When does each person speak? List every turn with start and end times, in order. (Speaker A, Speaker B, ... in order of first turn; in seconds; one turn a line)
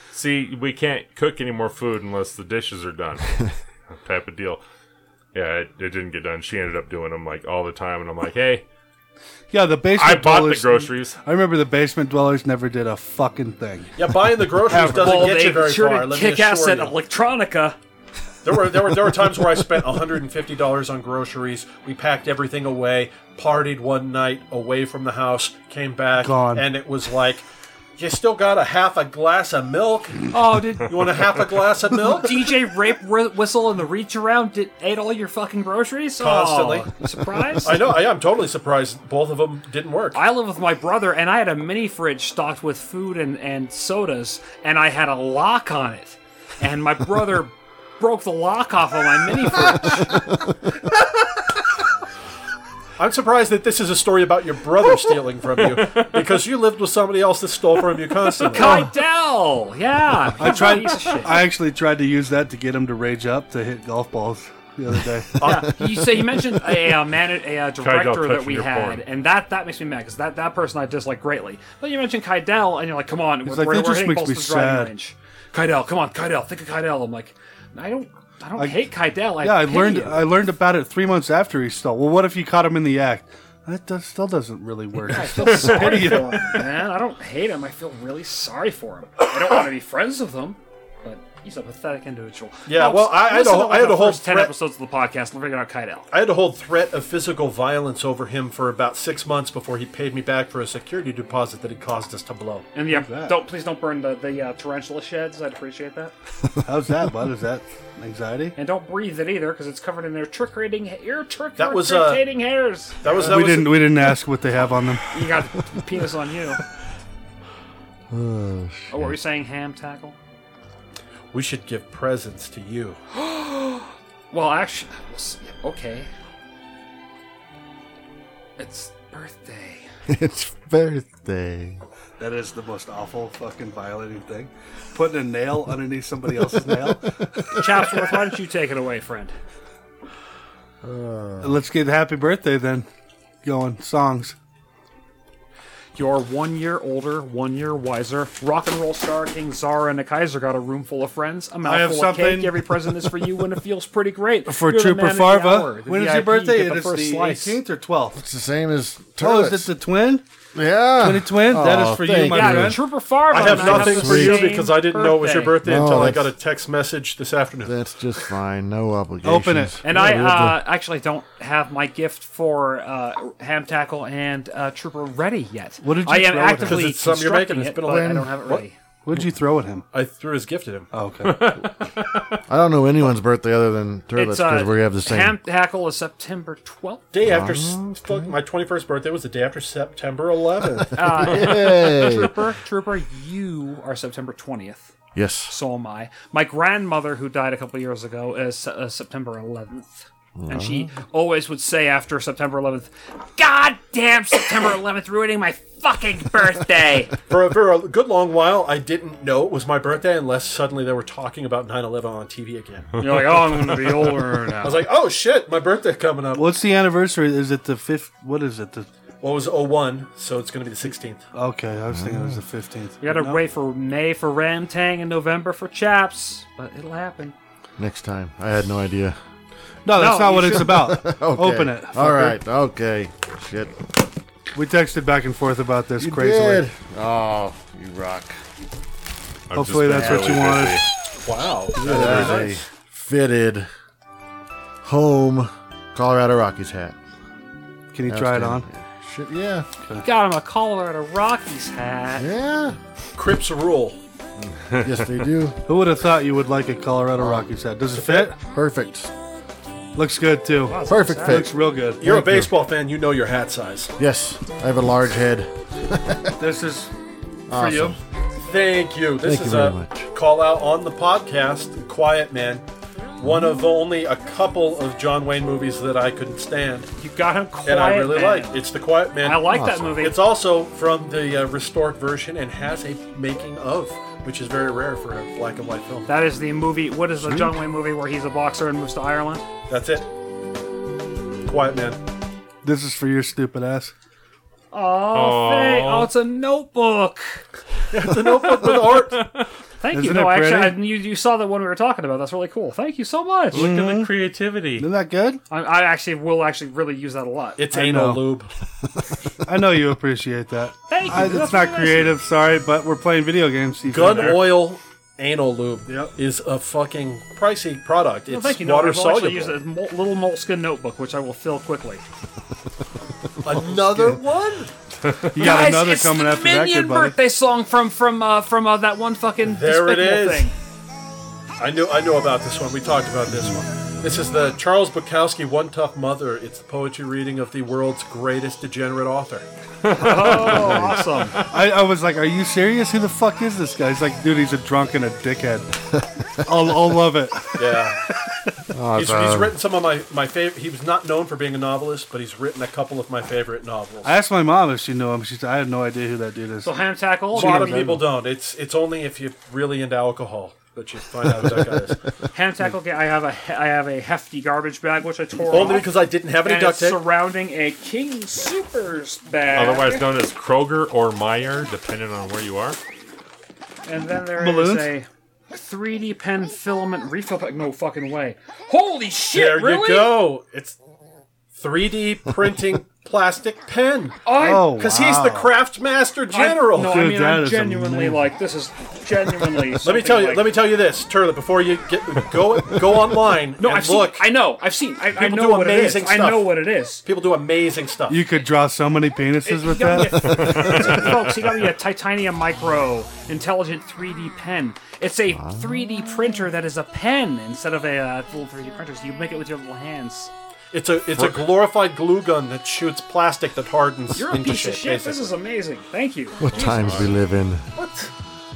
Speaker A: 0.1-4.6
Speaker A: 5.3-8.6
Speaker B: 9.5-15.4
Speaker A: 10.0-11.2
Speaker C: 14.0-17.0
Speaker D: 14.8-17.8
Speaker C: 18.4-27.4
Speaker B: 26.2-26.7
Speaker C: 28.0-32.5
Speaker D: 30.3-30.9
Speaker D: 32.0-37.8
Speaker C: 36.2-36.9
Speaker C: 37.6-40.2
Speaker D: 40.1-50.2
Speaker C: 53.0-58.9
Speaker A: 55.8-56.1
Speaker D: 58.5-61.4
Speaker B: 60.4-65.4
Speaker C: 65.4-65.7
Speaker D: 65.4-80.3
Speaker A: 67.8-69.0
Speaker B: 73.5-74.9
Speaker B: 78.6-78.9
Speaker B: 79.4-86.5
Speaker D: 85.1-96.1
Speaker C: 92.7-94.5
Speaker C: 96.1-102.7
Speaker D: 102.7-106.1
Speaker B: 102.9-103.4
Speaker B: 106.7-108.5
Speaker D: 108.6-113.4
Speaker C: 111.6-112.3
Speaker C: 113.0-113.9
Speaker B: 113.2-115.0
Speaker D: 115.1-116.6
Speaker E: 118.1-119.2
Speaker D: 118.9-120.2
Speaker C: 121.3-123.0
Speaker D: 123.1-126.1
Speaker D: 128.6-129.9
Speaker E: 130.1-131.8
Speaker B: 132.2-137.3
Speaker D: 137.6-139.3
Speaker E: 140.8-141.5
Speaker B: 141.4-142.9
Speaker B: 143.4-144.4
Speaker D: 145.9-157.6
Speaker B: 151.6-153.2
Speaker B: 154.5-158.2
Speaker E: 158.2-159.7
Speaker B: 159.2-160.2
Speaker E: 160.6-162.8
Speaker B: 161.0-162.8
Speaker D: 162.3-165.6
Speaker C: 163.3-167.7
Speaker E: 163.3-164.6
Speaker E: 165.6-166.3
Speaker E: 167.7-170.6
Speaker B: 169.2-169.8
Speaker D: 169.8-178.8
Speaker B: 175.8-176.9
Speaker C: 176.6-178.7
Speaker E: 177.9-178.3
Speaker B: 179.1-179.8
Speaker C: 179.9-180.9
Speaker B: 180.9-181.4
Speaker A: 181.2-182.4
Speaker E: 182.5-185.4
Speaker D: 184.1-187.1
Speaker C: 187.1-191.1
Speaker E: 187.3-188.3
Speaker E: 190.8-192.3
Speaker D: 190.9-194.9
Speaker E: 195.2-195.6
Speaker D: 195.5-207.1
Speaker E: 200.4-200.9
Speaker C: 207.3-212.9
Speaker D: 213.0-214.8
Speaker C: 214.6-216.5
Speaker B: 216.3-218.9
Speaker C: 219.2-221.2
Speaker B: 221.3-223.4
Speaker E: 221.9-222.4
Speaker D: 223.0-227.3
Speaker E: 227.8-229.2
Speaker B: 229.8-232.4
Speaker D: 229.9-230.9
Speaker E: 230.9-233.7
Speaker B: 234.6-236.7
Speaker E: 236.0-238.4
Speaker A: 239.5-240.8
Speaker B: 239.6-240.8
Speaker E: 239.9-240.3
Speaker C: 241.2-242.6
Speaker B: 241.8-242.6
Speaker E: 241.8-243.7
Speaker E: 244.8-246.9
Speaker B: 247.9-248.7
Speaker E: 248.1-249.7
Speaker D: 250.0-252.3
Speaker E: 252.2-252.8
Speaker C: 253.2-254.0
Speaker A: 254.4-255.1
Speaker E: 254.8-255.6
Speaker B: 255.7-258.4
Speaker E: 257.2-257.5
Speaker C: 257.9-258.3
Speaker E: 258.4-259.1
Speaker B: 260.0-262.0
Speaker D: 260.7-261.5
Speaker E: 260.8-262.5
Speaker C: 262.0-263.9
Speaker E: 264.0-266.4
Speaker B: 266.4-266.9
Speaker E: 267.5-268.0
Speaker B: 267.5-268.0
Speaker C: 268.4-272.6
Speaker E: 269.2-270.1
Speaker C: 273.2-276.9
Speaker E: 273.2-273.5
Speaker D: 277.0-278.6
Speaker C: 277.6-286.1
Speaker D: 279.2-280.2
Speaker E: 279.5-280.0
Speaker D: 286.1-289.4
Speaker C: 289.7-290.1
Speaker C: 291.4-292.0
Speaker B: 292.6-293.9
Speaker D: 294.7-297.4
Speaker A: 295.1-296.1
Speaker C: 297.9-299.3
Speaker A: 298.8-299.5
Speaker D: 299.8-303.7
Speaker B: 299.9-300.8
Speaker B: 303.5-304.1
Speaker A: 303.5-304.9
Speaker B: 304.8-305.4
Speaker D: 305.5-307.6
Speaker C: 307.6-308.5
Speaker B: 307.7-308.3
Speaker B: 309.4-314.4
Speaker D: 310.9-312.1
Speaker C: 313.9-319.6
Speaker A: 313.9-314.5
Speaker B: 315.9-316.1
Speaker D: 318.3-322.0
Speaker C: 323.4-324.7
Speaker E: 323.5-323.8
Speaker B: 325.3-327.2
Speaker D: 325.4-330.6
Speaker C: 329.4-330.5
Speaker C: 331.6-339.5
Speaker B: 333.3-333.6
Speaker A: 339.8-341.5
Speaker D: 339.9-341.4
Speaker B: 341.5-345.8
Speaker B: 346.4-348.5
Speaker C: 347.6-348.0
Speaker E: 348.7-349.6
Speaker C: 348.9-354.1
Speaker B: 354.0-356.8
Speaker D: 356.6-357.9
Speaker C: 357.3-362.0
Speaker E: 357.4-358.0
Speaker D: 362.3-370.1
Speaker C: 365.5-367.0
Speaker A: 369.5-372.8
Speaker D: 373.9-380.3
Speaker B: 374.4-374.9
Speaker C: 379.3-380.8
Speaker C: 381.5-387.0
Speaker D: 384.2-384.8
Speaker B: 384.4-385.6
Speaker D: 386.3-390.5
Speaker B: 386.8-388.3
Speaker C: 389.8-394.3
Speaker D: 393.6-397.0
Speaker C: 395.1-398.2
Speaker B: 398.1-400.5
Speaker D: 399.4-410.3
Speaker A: 400.3-401.2
Speaker E: 405.3-405.7
Speaker C: 410.7-415.3
Speaker A: 411.2-411.4
Speaker D: 414.1-417.0
Speaker E: 416.4-417.7
Speaker A: 416.5-417.1
Speaker C: 417.8-418.1